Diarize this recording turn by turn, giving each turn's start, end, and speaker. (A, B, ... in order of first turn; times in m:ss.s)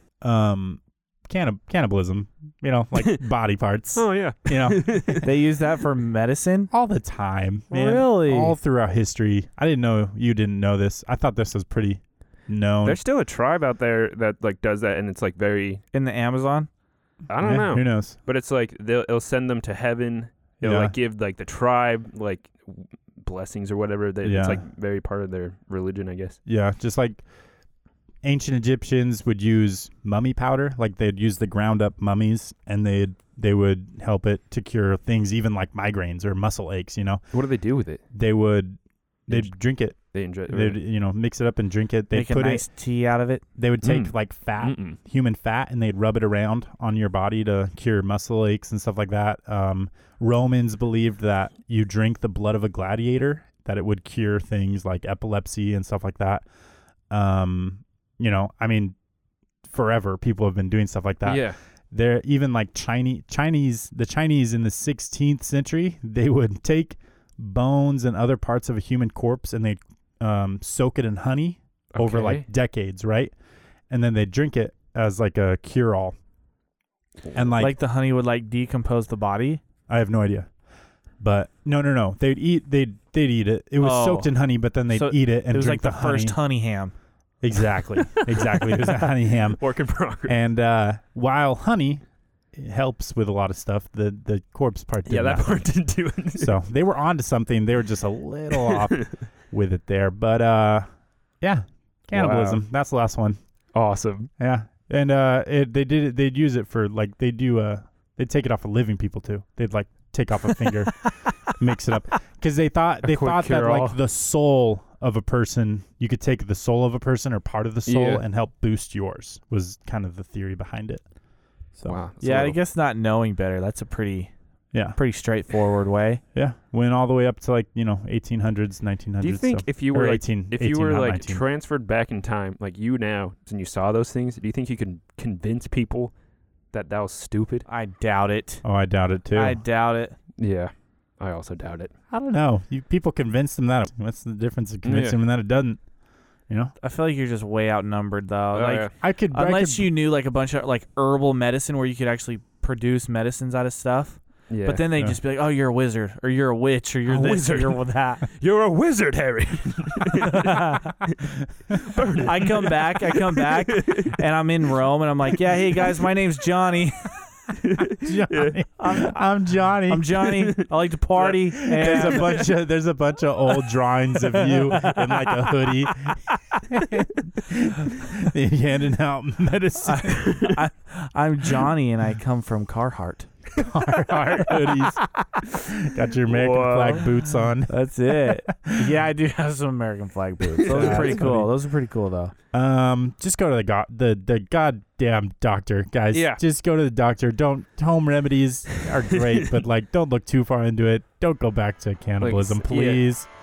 0:00.2-0:05.2 A
0:03.9-0:05.3 B
0:05.2-0:06.7 C
0:06.7-0:13.0 A
0:07.7-0:08.6 C
0:12.8-0:15.8 B
0:15.9-0:16.7 C
0:17.3-0:26.4 B
0:17.4-0:18.2 A
0:20.6-0:20.9 A
0:24.2-0:24.6 A
0:26.4-0:27.2 A
0:28.2-0:37.2 A
0:37.3-0:38.0 B
0:38.1-0:42.6 A
0:40.1-0:40.8 B
0:42.1-0:43.4 C
0:43.6-0:56.4 A
0:43.8-0:45.0 B
0:57.1-0:59.0 A
0:59.6-1:13.3 A
1:01.2-1:01.6 B
1:11.9-1:12.4 B
1:13.9-1:16.2 A
1:17.3-1:17.7 A
1:17.6-1:19.6 C
1:19.9-1:20.5 A
1:21.2-1:26.4 A
1:23.8-1:24.3 C
1:24.9-1:26.9 C
1:27.4-1:29.6 A
1:29.6-1:30.4 B
1:30.3-1:35.6 A
1:35.1-1:36.6 B
1:36.4-1:40.9 A
1:38.5-1:39.1 B
1:41.4-1:43.4 A
1:42.1-1:42.6 B
1:43.7-1:44.3 B
1:44.4-2:01.0 A
1:53.0-1:54.0 B
1:57.8-1:58.2 B
2:01.8-2:02.6 B
2:02.2-2:04.3 C
2:04.7-2:05.0 A
2:04.9-2:06.2 C
2:06.3-2:11.4 A
2:09.2-2:16.1 B
2:16.7-2:17.6 B
2:17.7-2:18.6 C
2:18.6-2:19.6 A
2:19.3-2:20.1 C
2:20.4-2:21.9 B
2:22.1-2:25.8 A
2:24.8-2:25.2 B
2:26.8-2:38.2 C
2:28.5-2:28.9 B
2:29.0-2:29.9 A
2:34.5-2:34.9 B
2:37.1-2:44.2 B
2:40.1-2:41.0 C
2:42.2-2:47.2 C
2:47.6-2:48.6 B
2:48.0-2:50.3 A
2:48.8-2:49.2 C
2:49.9-2:52.5 C
2:50.3-2:50.7 B
2:51.2-2:52.4 B
2:51.5-3:00.3 A
2:54.4-2:55.5 C
2:56.3-2:56.6 C
2:59.8-3:03.3 C
3:00.2-3:00.5 B
3:03.6-3:05.0 A
3:04.5-3:05.3 C
3:05.5-3:09.0 A
3:06.3-3:07.1 B
3:07.7-3:12.3 C
3:10.6-3:11.2 B
3:10.6-3:11.5 A
3:12.5-3:23.3 A
3:16.1-3:16.4 B
3:19.1-3:19.6 B
3:22.2-3:23.1 B